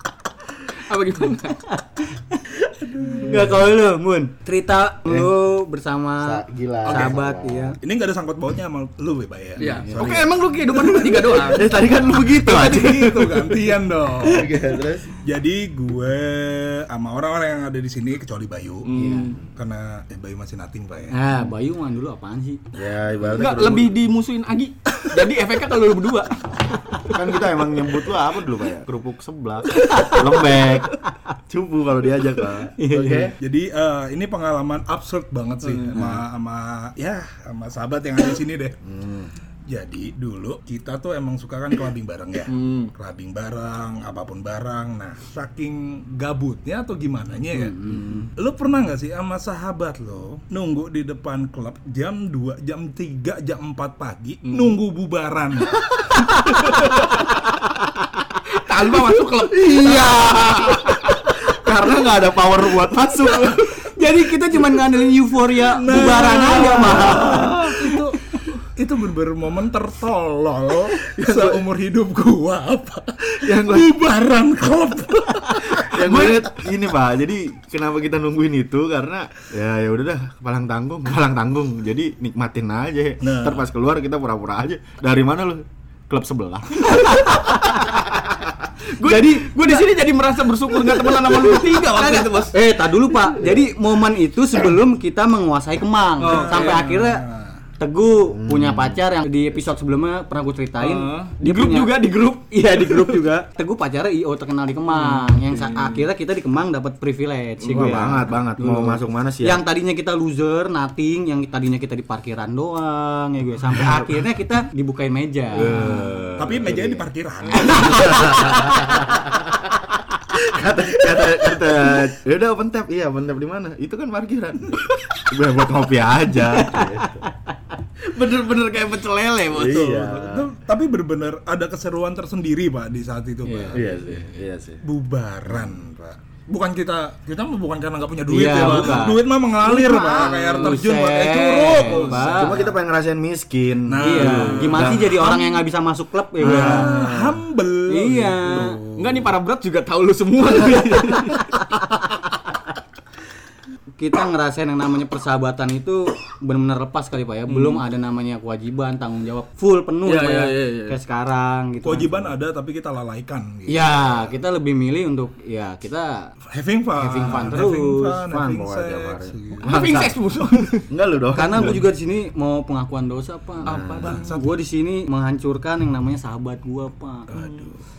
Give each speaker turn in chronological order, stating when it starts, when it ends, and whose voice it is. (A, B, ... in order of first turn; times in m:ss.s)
0:00.8-0:01.6 A
0:01.7-0:07.8 B
0:05.0-0:05.3 C
0:06.2-0:07.8 C
0:07.8-0:11.5 D
0:09.6-0:11.7 A
0:11.4-0:13.6 C
0:12.2-0:14.5 D
0:14.2-0:15.1 C
0:15.2-0:18.9 D
0:18.8-0:19.4 A
0:18.9-0:19.4 B
0:19.5-0:21.2 D
0:21.1-0:22.6 B
0:22.7-0:24.0 C
0:23.3-0:27.0 A
0:27.1-0:31.0 C
0:29.8-0:30.4 B
0:31.5-0:33.3 C
0:32.8-0:33.3 B
0:33.4-0:38.8 D
0:35.7-0:36.0 A
0:38.8-0:39.3 C
0:39.7-0:55.9 D
0:42.5-0:42.9 A
0:47.5-0:48.2 B
0:47.9-0:48.3 C
0:54.4-0:54.8 A
0:56.4-0:57.1 B
0:58.6-1:01.0 A
0:59.5-1:03.8 C
1:03.6-1:08.0 B
1:05.6-1:16.4 D
1:11.2-1:11.6 C
1:13.3-1:13.9 C
1:15.7-1:27.3 C
1:23.2-1:23.6 D
1:26.9-1:27.9 B
1:27.4-1:27.8 A
1:28.9-1:32.5 A
1:29.0-1:29.9 B
1:31.1-1:37.2 B
1:36.2-1:36.9 A
1:36.2-1:37.6 D
1:37.8-1:56.1 B
1:38.3-1:39.0 C
1:40.8-1:43.3 A
1:44.9-1:46.0 A
1:47.6-1:48.0 A
1:47.7-1:49.6 C
1:53.8-1:54.1 C
1:55.5-1:57.0 C
1:56.4-1:58.2 D
1:57.6-1:59.1 B
1:57.6-1:59.7 C
2:00.3-2:07.3 C
2:06.6-2:07.3 B
2:08.1-2:10.5 C
2:08.4-2:09.2 A
2:09.5-2:14.2 D
2:13.4-2:14.2 B
2:13.7-2:14.8 C
2:14.8-2:22.6 D
2:15.4-2:15.8 C
2:18.3-2:22.7 B
2:18.6-2:19.0 A
2:20.1-2:20.8 A
2:21.8-2:22.3 A
2:22.3-2:25.4 C
2:23.9-2:25.5 D
2:24.0-2:27.0 B
2:26.4-2:29.3 D
2:26.4-2:27.4 C
2:27.9-2:28.8 B
2:28.9-2:31.6 A
2:34.0-2:42.3 B
2:37.5-2:37.8 A
2:40.0-2:41.0 A
2:41.8-2:44.2 D
2:43.7-2:46.3 B
2:46.5-2:49.9 D
2:47.0-2:48.2 B
2:48.3-2:50.3 C
2:49.6-2:50.9 A
2:50.9-2:51.8 C
2:51.3-2:57.3 B
2:53.6-2:54.2 C
2:53.7-2:54.2 A
2:53.7-2:54.6 D
2:57.3-2:57.8 D
2:57.3-2:57.7 A